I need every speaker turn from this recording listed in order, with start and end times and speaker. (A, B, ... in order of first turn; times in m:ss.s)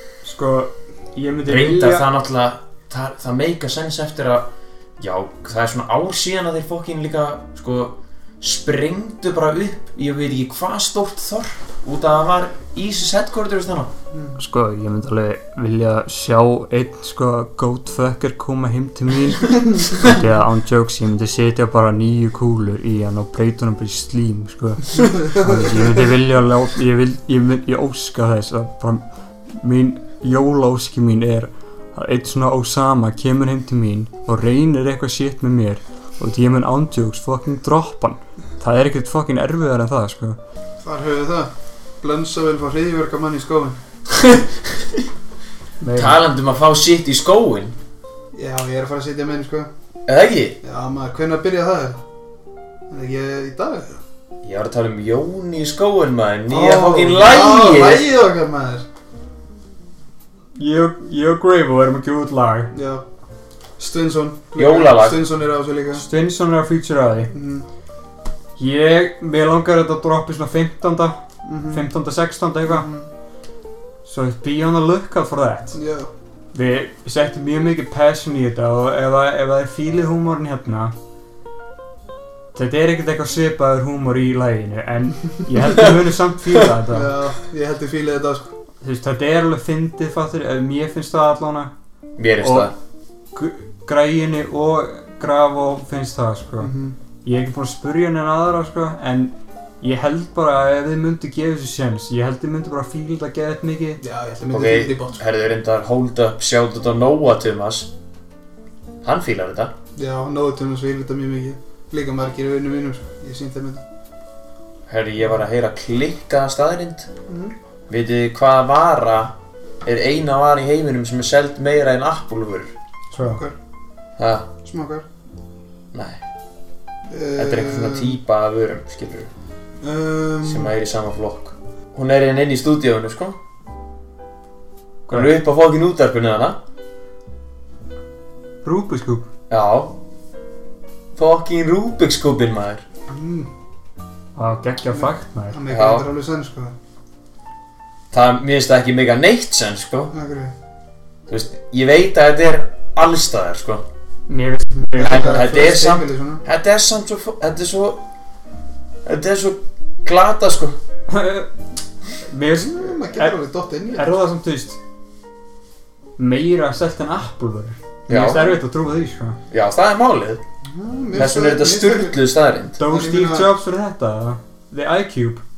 0:00.2-0:02.1 A
0:01.4-0:13.9 B
0:14.1-0:14.4 C
0:14.4-0:40.4 A
0:25.3-0:25.7 C
0:40.8-0:43.8 C
0:44.1-0:45.0 B
0:45.8-0:46.2 A
0:46.0-0:47.8 B
0:48.3-0:49.7 C
0:50.1-0:50.6 B
0:50.6-0:52.0 C
0:52.9-0:54.0 C
0:54.4-0:58.0 B
0:56.5-0:58.8 C
1:00.6-1:02.7 A
1:02.7-1:03.0 C
1:03.8-1:06.0 C
1:04.6-1:05.2 B
1:05.9-1:07.3 A
1:07.3-1:07.6 C
1:08.6-1:12.9 A
1:11.4-1:11.8 C
1:12.7-1:13.1 C
1:14.0-1:15.8 A
1:15.7-1:16.1 C
1:16.5-1:20.9 A
1:22.5-1:27.1 A
1:26.9-1:28.5 C
1:28.8-1:31.7 A
1:32.2-1:32.7 B
1:32.4-1:32.7 A
1:33.3-1:36.7 A
1:36.6-1:36.9 C
1:37.2-1:44.0 A
1:44.0-1:45.2 C
1:44.5-1:47.9 B
1:49.0-1:49.7 B
1:49.9-1:53.8 C
1:54.9-1:57.1 B
1:57.3-1:57.5 C
1:57.9-2:02.7 B
2:03.1-2:03.4 A
2:03.2-2:03.5 C
2:04.2-2:04.5 B
2:04.6-2:05.0 C
2:05.9-2:06.2 B
2:07.1-2:08.2 C
2:07.4-2:09.3 B
2:09.8-2:10.7 C
2:10.4-2:13.4 B
2:15.1-2:15.3 A
2:15.1-2:16.6 B
2:18.6-2:19.2 A
2:19.5-2:19.9 B
2:21.1-2:22.8 B
2:23.1-2:23.5 C
2:24.4-2:25.6 A
2:25.0-2:26.7 C
2:25.7-2:26.0 B
2:28.1-2:30.1 B
2:30.1-2:30.5 C
2:31.3-2:33.8 B
2:34.3-2:35.5 A
2:34.9-2:36.4 C
2:35.0-2:38.0 B
2:39.0-2:40.8 B
2:41.1-2:41.5 A
2:42.2-2:43.4 A
2:42.6-2:44.1 C
2:43.9-2:44.8 A
2:46.2-2:49.4 A
2:48.1-2:48.6 B
2:49.5-2:50.4 B
2:50.6-2:52.2 C
2:51.1-2:52.8 B
2:52.8-2:55.4 A
2:52.8-2:53.5 C